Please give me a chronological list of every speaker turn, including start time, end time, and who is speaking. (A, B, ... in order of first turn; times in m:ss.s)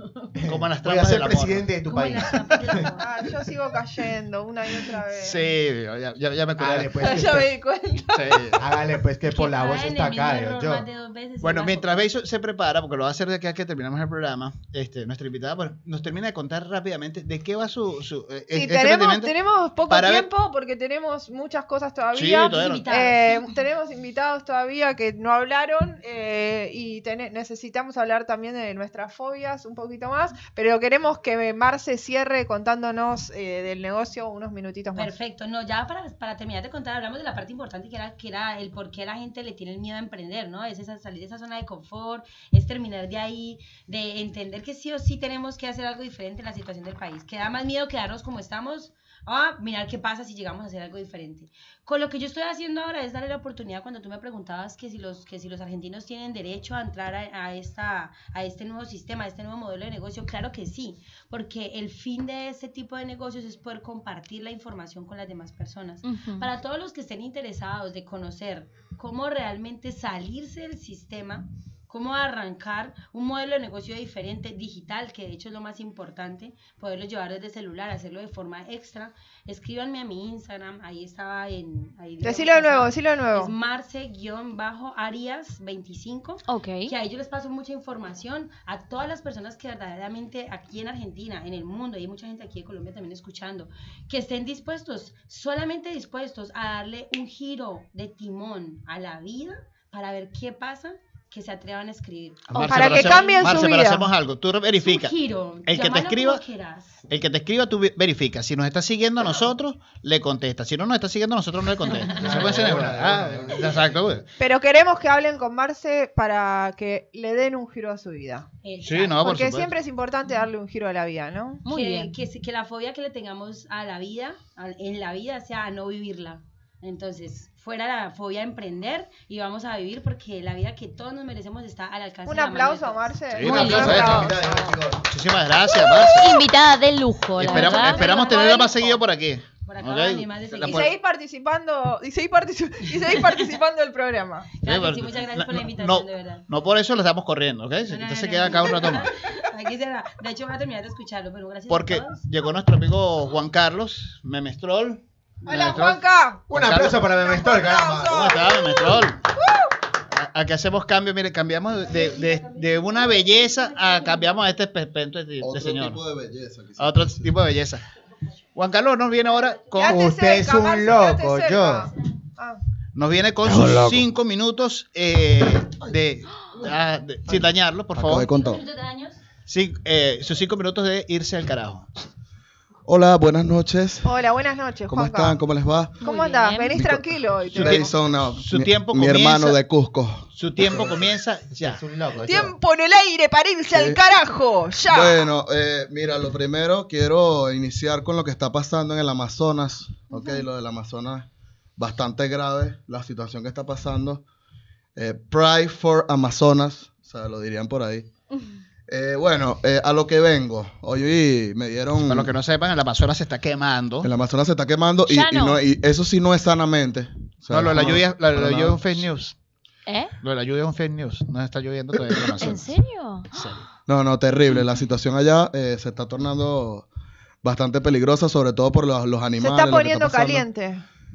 0:00.3-0:02.9 A
0:00.4-0:01.7 B
0:01.8-0:03.1 C
0:03.0-0:05.5 D
0:05.2-0:07.0 B
0:06.6-0:07.5 A
0:07.0-0:08.5 D
0:08.1-0:08.6 B
0:08.6-0:10.8 A
0:09.3-0:12.0 C
0:11.4-0:19.3 B
0:18.5-0:35.1 D
0:19.9-0:20.3 B
0:22.1-0:22.9 B
0:22.2-0:23.4 C
0:34.9-1:43.9 C
1:06.0-1:06.5 E
1:22.2-1:23.5 D
1:26.5-1:26.9 E
1:42.5-1:45.1 B
1:42.7-1:44.1 D
1:44.8-1:47.0 C
1:45.7-1:46.4 B
1:47.1-1:54.2 B
1:52.2-1:53.5 A
1:52.2-1:53.4 F
1:54.4-1:58.4 D
1:58.6-1:59.2 C
1:58.8-1:59.7 B
1:59.2-2:01.6 D
2:01.6-2:02.1 E
2:01.7-2:14.0 C
2:12.3-2:14.7 D
2:13.3-2:14.4 B
2:13.5-2:14.2 E
2:13.6-2:15.0 A
2:15.1-2:16.4 B
2:16.0-2:18.0 E
2:17.4-2:20.9 B
2:17.4-2:19.0 C
2:19.6-2:20.9 C
2:20.6-2:24.5 D
2:24.6-2:26.5 C
2:24.6-2:29.1 B
2:27.9-2:32.2 C
2:31.7-2:37.0 B
2:35.4-2:36.5 D
2:36.5-2:38.4 A
2:37.0-2:39.7 D
2:38.1-2:39.2 B
2:40.1-2:46.0 B
2:41.8-2:44.5 C
2:45.4-2:47.3 F
2:46.8-2:47.8 B
2:48.5-2:50.1 B
2:49.8-2:52.6 D
2:49.8-2:51.9 A
2:52.9-2:58.3 B
2:53.4-2:54.0 F
2:57.9-2:58.6 F
2:58.4-2:59.1 C
2:59.5-3:01.9 B
3:02.8-3:04.1 F
3:04.0-3:05.4 D
3:04.9-3:06.0 F
3:06.0-3:07.9 D
3:06.0-3:06.7 E
3:06.7-3:11.0 F
3:07.5-3:09.6 B
3:10.3-3:11.8 B
3:11.5-3:12.5 A
3:12.2-3:15.2 D
3:13.7-3:14.0 F
3:14.9-3:24.2 F
3:25.0-3:28.1 F
3:28.9-3:32.3 F
3:32.0-3:34.1 B
3:34.0-3:39.0 F
3:35.1-3:35.6 E
3:37.5-3:39.4 B
3:39.9-3:40.1 E
3:40.2-3:42.6 B
3:41.9-3:42.4 F
3:42.4-3:43.3 E
3:43.3-3:43.6 B
3:43.8-3:46.9 F
3:47.4-3:50.5 F
3:49.4-3:50.8 D